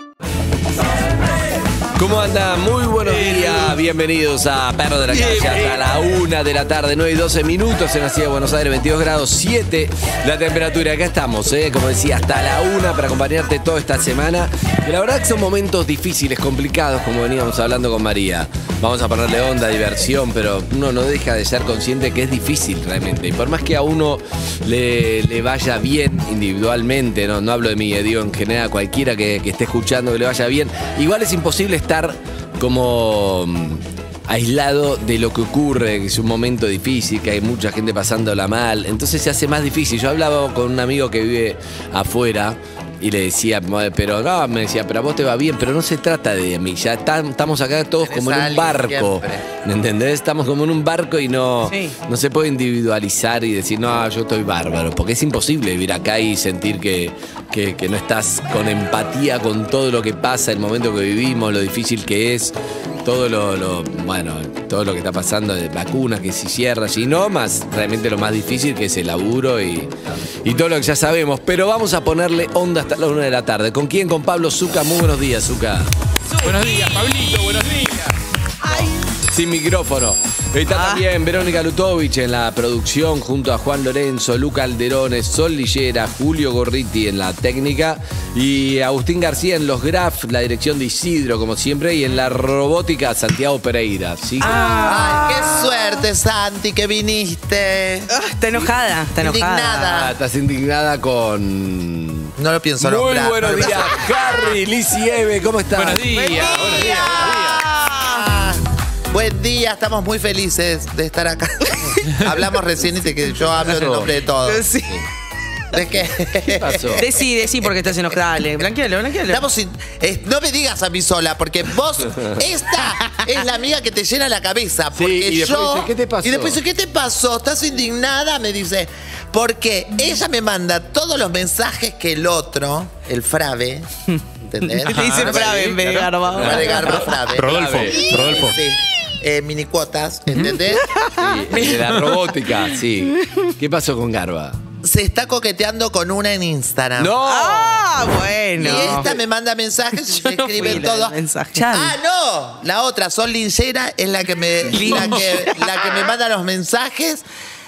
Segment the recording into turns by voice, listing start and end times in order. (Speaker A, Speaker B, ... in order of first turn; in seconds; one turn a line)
Speaker A: 1.9-75.9
Speaker B: 48.0-49.5
Speaker C: 51.7-52.0
Speaker C: 76.3-77.2
Speaker D: 76.4-78.2
Speaker C: 78.6-78.9
Speaker A: 78.7-94.9
Speaker C: 80.7-81.1
Speaker C: 94.4-96.0
Speaker B: 94.5-98.1
Speaker C: 98.1-100.0
Speaker B: 99.2-100.1
Speaker A: 99.9-106.6
Speaker B: 102.4-104.2
Speaker D: 105.7-107.6
Speaker C: 106.2-108.3
Speaker B: 106.4-114.7
Speaker C: 111.7-112.4
Speaker A: 113.6-114.2
Speaker C: 114.4-115.0
Speaker B: 115.7-117.7
Speaker A: 116.5-117.1
Speaker C: 117.0-119.5
Speaker B: 119.3-133.9
Speaker A: 122.1-122.4
Speaker A: 124.9-126.6
Speaker C: 134.1-137.2
Speaker B: 134.4-140.9
Speaker D: 134.9-136.1
Speaker A: 136.3-138.5
Speaker D: 137.3-138.6
Speaker C: 140.4-142.0
Speaker A: 141.1-144.6
Speaker C: 143.1-143.5
Speaker B: 144.8-147.2
Speaker A: 147.0-147.9
Speaker C: 147.2-149.2
Speaker B: 148.6-157.2
Speaker A: 148.7-149.1
Speaker C: 150.1-152.0
Speaker C: 154.7-155.9